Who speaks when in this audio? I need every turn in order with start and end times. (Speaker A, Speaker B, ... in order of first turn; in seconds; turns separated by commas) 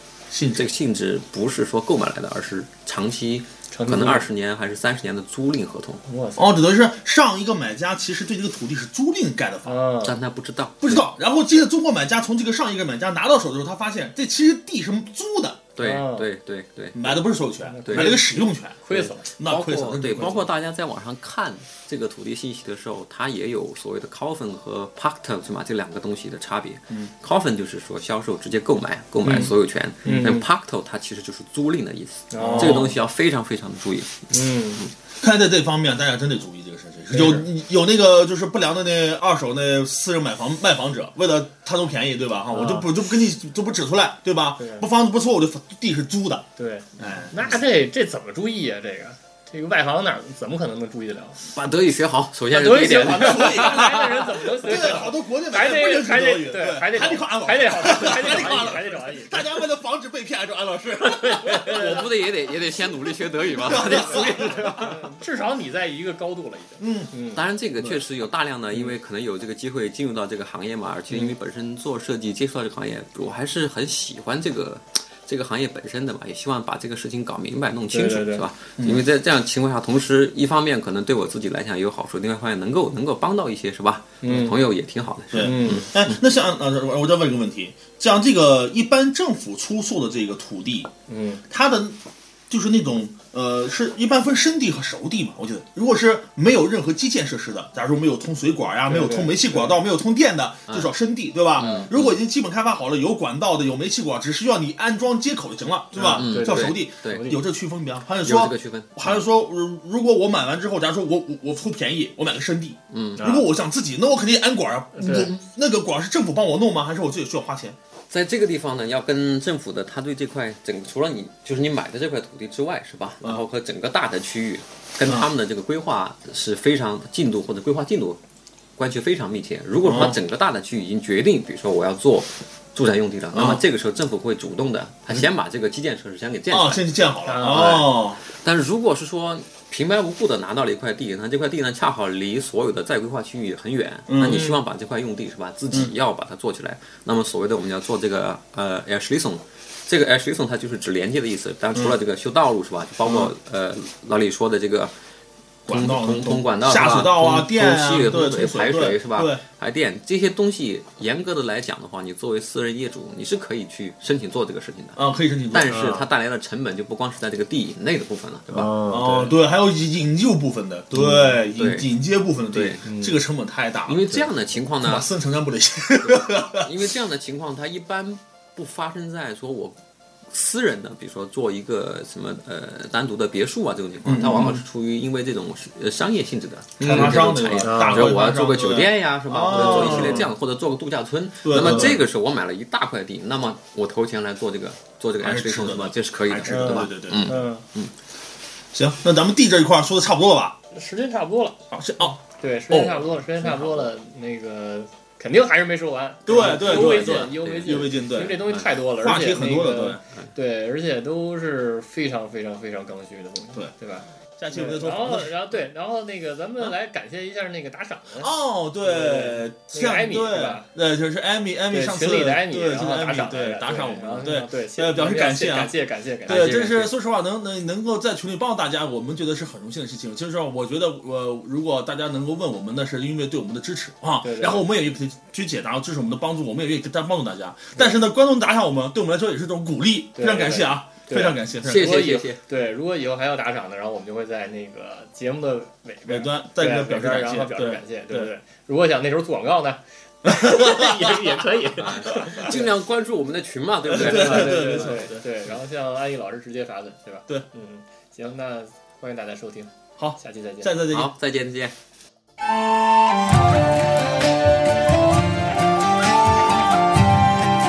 Speaker A: 0.3-0.7, Speaker B: 0.5-6.0, Speaker C: 3.7-4.3, Speaker C: 6.1-6.5, Speaker A: 6.4-9.8, Speaker C: 9.7-10.1, Speaker B: 10.0-11.0, Speaker A: 10.8-15.7, Speaker B: 15.8-17.2, Speaker C: 15.8-16.3, Speaker A: 16.9-20.5, Speaker C: 17.6-19.3, Speaker B: 17.9-18.2, Speaker B: 19.4-34.9, Speaker C: 29.2-29.5, Speaker C: 30.0-30.4, Speaker C: 32.3-32.9, Speaker A: 32.4-33.0, Speaker C: 34.3-34.8, Speaker A: 35.2-46.5, Speaker C: 37.1-37.5, Speaker C: 42.5-42.9, Speaker C: 44.6-44.9, Speaker C: 46.6-51.4, Speaker A: 47.0-47.5, Speaker B: 51.5-54.2, Speaker C: 52.5-59.5, Speaker A: 53.0-62.1, Speaker C: 61.0-62.0, Speaker B: 61.6-65.0, Speaker A: 63.5-65.0, Speaker C: 63.7-67.4, Speaker A: 66.8-67.1, Speaker B: 67.3-86.2, Speaker C: 77.9-78.4, Speaker A: 78.8-79.0, Speaker C: 84.2-84.6, Speaker A: 85.3-90.9, Speaker C: 85.4-85.9, Speaker C: 91.1-91.4, Speaker A: 91.5-117.8, Speaker C: 98.9-99.8, Speaker B: 101.6-102.2, Speaker C: 101.6-101.9, Speaker C: 106.0-107.4, Speaker B: 106.1-107.3, Speaker B: 108.2-109.2, Speaker B: 112.9-113.4, Speaker C: 113.2-113.5, Speaker C: 115.0-115.4, Speaker B: 118.1-128.2, Speaker B: 128.8-136.9, Speaker A: 129.8-130.2, Speaker A: 133.3-133.6, Speaker A: 136.5-138.2, Speaker C: 137.3-137.9, Speaker B: 137.4-154.9, Speaker A: 144.1-144.6, Speaker A: 153.1-153.3, Speaker A: 155.7-159.4, Speaker B: 155.7-168.7, Speaker A: 165.0-166.0, Speaker C: 165.7-166.1, Speaker C: 168.5-169.3, Speaker A: 168.9-176.9, Speaker C: 170.9-171.4, Speaker B: 171.6-171.9, Speaker B: 172.5-172.8, Speaker C: 172.8-173.2, Speaker B: 173.9-175.1, Speaker B: 176.0-179.8, Speaker B: 180.3-197.9, Speaker A: 184.0-184.6, Speaker C: 184.3-184.6, Speaker A: 186.8-190.3, Speaker C: 186.8-188.2, Speaker C: 189.5-190.3, Speaker A: 191.4-192.0, Speaker C: 191.6-192.0, Speaker A: 195.2-197.3, Speaker C: 196.5-197.6, Speaker A: 198.7-200.6, Speaker C: 200.7-218.3, Speaker A: 201.7-202.2, Speaker A: 202.7-203.9, Speaker A: 206.3-210.0, Speaker B: 206.3-207.9, Speaker A: 214.4-215.5, Speaker A: 218.2-242.0, Speaker C: 218.8-220.7, Speaker C: 221.7-226.9, Speaker B: 226.3-226.9, Speaker C: 234.2-234.6, Speaker C: 240.1-252.7, Speaker B: 241.7-242.4, Speaker A: 246.1-248.3, Speaker A: 250.3-251.2, Speaker B: 251.8-255.0, Speaker A: 252.1-252.5, Speaker A: 253.9-255.3, Speaker C: 253.9-260.8, Speaker A: 260.0-261.1, Speaker B: 260.9-261.8